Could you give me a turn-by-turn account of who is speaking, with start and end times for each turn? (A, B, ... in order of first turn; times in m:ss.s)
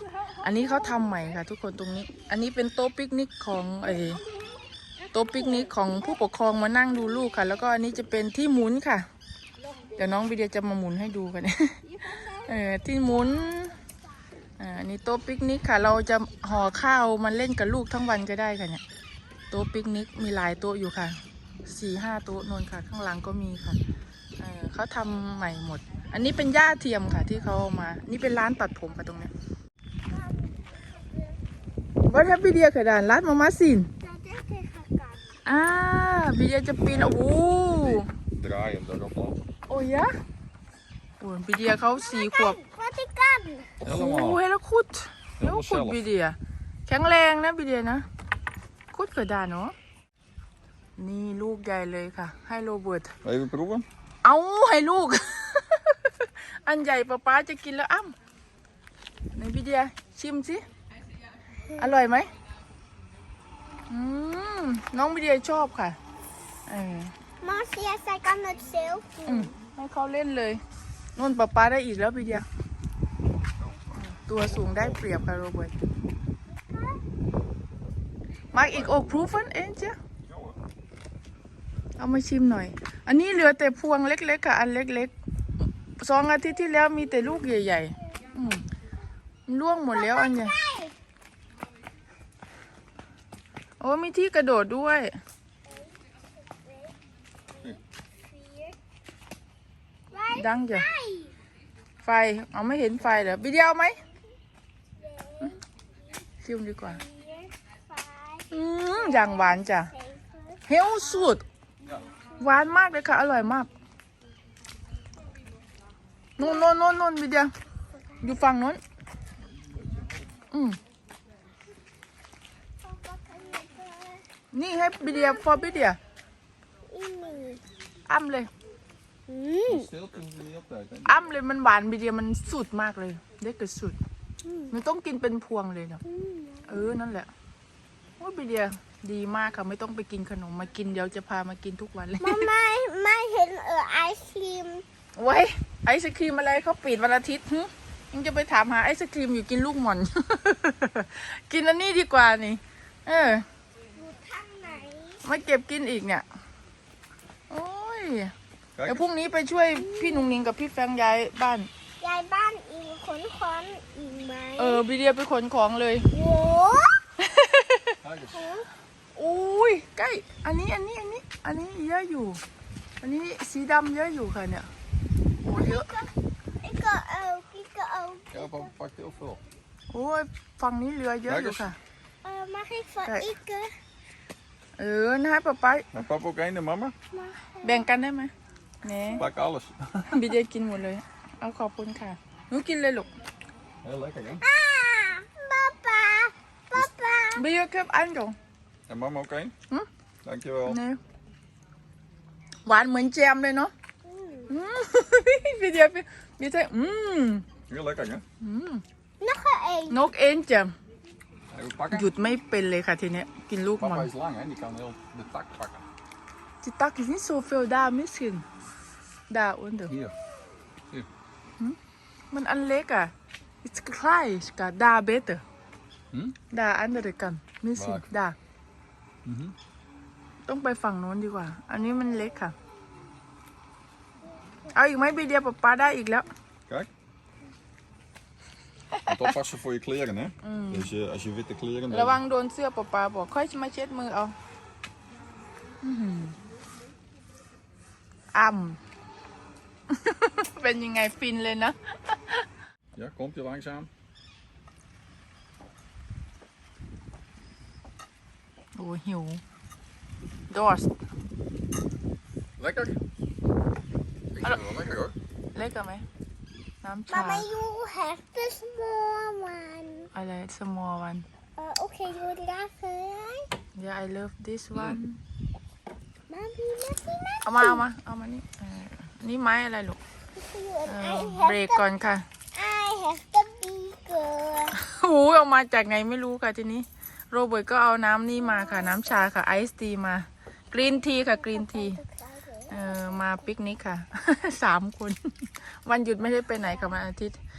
0:00.4-0:04.2 A
0:04.2-0:04.5 B
0:05.1-0:09.1 A
0:10.0-0:11.8 A
0:11.9-0:13.6 B
0:12.4-0:13.8 A
0:14.6-0:18.8 A
0:19.5-0:23.8 A
0:24.4-0:29.3 A
0:30.1-0:31.4 B
0:32.0-0:33.9 A
0:34.0-0:35.4 B
0:35.4-0:38.1 A
0:36.9-0:39.4 C
0:39.7-0:40.1 A
0:41.2-0:42.6 A
0:42.0-0:43.8 B
0:43.8-0:44.4 C
0:43.8-0:46.4 A
0:45.4-0:46.0 C
0:46.9-0:48.0 A
0:48.9-0:49.7 A
0:51.0-0:53.1 A
0:53.2-0:53.8 C
0:54.2-0:58.1 A
0:59.3-1:00.6 A
1:01.8-1:02.3 A
1:03.9-1:06.0 A
1:06.7-1:07.1 A
1:07.4-1:09.5 B
1:09.2-1:10.6 A
1:11.2-1:12.4 A
1:13.9-1:15.7 A
1:16.5-1:17.0 B
1:18.5-1:20.0 A
1:18.7-1:19.1 C
1:20.3-1:20.5 C
1:22.0-1:28.7 A
1:29.5-1:30.6 A
1:29.9-1:30.9 B
1:33.8-1:35.2 A
1:35.6-1:36.9 B
1:38.3-1:38.7 B
1:40.1-1:41.3 B
1:40.3-1:40.8 A
1:42.0-1:44.0 A
1:45.0-1:45.6 B
1:46.4-1:47.0 A
1:46.9-1:50.6 B
1:48.5-1:49.9 A
1:50.7-1:51.4 A
1:52.4-1:53.7 A
1:56.4-1:57.5 A
1:57.9-1:58.4 B
1:58.2-1:58.8 A
1:59.5-2:00.3 C
2:00.5-2:00.8 A
2:02.8-2:04.2 B
2:04.5-2:06.0 A
2:05.0-2:05.8 B
2:06.9-2:07.6 B
2:08.1-2:08.5 A
2:09.3-2:09.9 B
2:09.7-2:11.2 C
2:11.0-2:14.0 A
2:14.4-2:14.7 B
2:14.7-2:16.0 A
2:16.0-2:16.7 B
2:16.7-2:17.3 A
2:18.2-2:22.5 A
2:22.2-2:24.8 B
2:25.2-2:33.4 A
2:34.0-2:35.2 B
2:35.2-2:36.2 A
2:37.5-2:38.3 A
2:38.8-2:39.1 C
2:38.8-2:41.7 A
2:39.7-2:40.3 B
2:42.0-2:44.8 B
2:44.6-2:46.1 A
2:46.1-2:47.0 B
2:47.2-2:48.0 A
2:48.0-2:48.5 C
2:48.3-2:48.7 B
2:49.2-2:52.4 A
2:53.0-2:54.7 A
2:55.4-2:55.9 A
2:55.5-2:56.1 B
2:56.6-2:58.7 B
2:58.3-2:59.4 C
2:59.9-3:01.8 A
3:01.3-3:01.7 C
3:02.2-3:03.7 B
3:03.0-3:03.3 A
3:04.8-3:05.9 A
3:05.9-3:06.9 C
3:07.1-3:07.9 B
3:07.6-3:08.3 A
3:08.8-3:09.2 A
3:09.2-3:10.3 C
3:10.0-3:13.1 A
3:13.8-3:14.4 C
3:14.4-3:17.4 B
3:17.3-3:18.4 A
3:18.9-3:19.5 C
3:20.2-3:20.8 C
3:20.6-3:21.0 A
3:22.6-3:23.7 A
3:24.0-3:24.5 B
3:24.5-3:27.5 A
3:27.7-3:28.2 C
3:28.4-3:28.8 A
3:29.2-3:30.0 B
3:29.9-3:30.7 A
3:31.5-3:32.1 C
3:31.9-3:34.1 A
3:33.8-3:35.8 C
3:36.6-3:38.4 A
3:39.3-3:39.9 A
3:39.9-3:40.1 C
3:42.3-3:45.4 A
3:46.1-3:46.4 C
3:46.5-3:48.4 A
3:47.7-3:48.0 C
3:49.2-3:49.5 C
3:50.4-3:52.5 A
3:54.7-3:56.3 A
3:58.9-3:59.3 A
3:59.0-4:02.2 C
4:00.4-4:00.9 A
4:01.9-4:04.4 A
4:05.8-4:06.4 A
4:08.3-4:08.8 A
4:09.9-4:12.4 A
4:12.9-4:13.9 C
4:18.8-4:19.4 A
4:20.5-4:20.9 A
4:22.6-4:23.0 C
4:24.3-4:25.1 C
4:25.5-4:26.0 A
4:26.8-4:27.5 A
4:27.1-4:30.1 B
4:30.1-4:31.2 A
4:31.6-4:33.5 B
4:33.7-4:35.2 A
4:36.3-4:37.8 B
4:37.4-4:40.0 A
4:40.3-4:41.8 B
4:40.8-4:42.3 A
4:42.5-4:44.8 B
4:44.7-4:52.0 A
4:48.5-4:49.0 B
4:51.4-4:53.2 B
4:52.7-4:57.4 A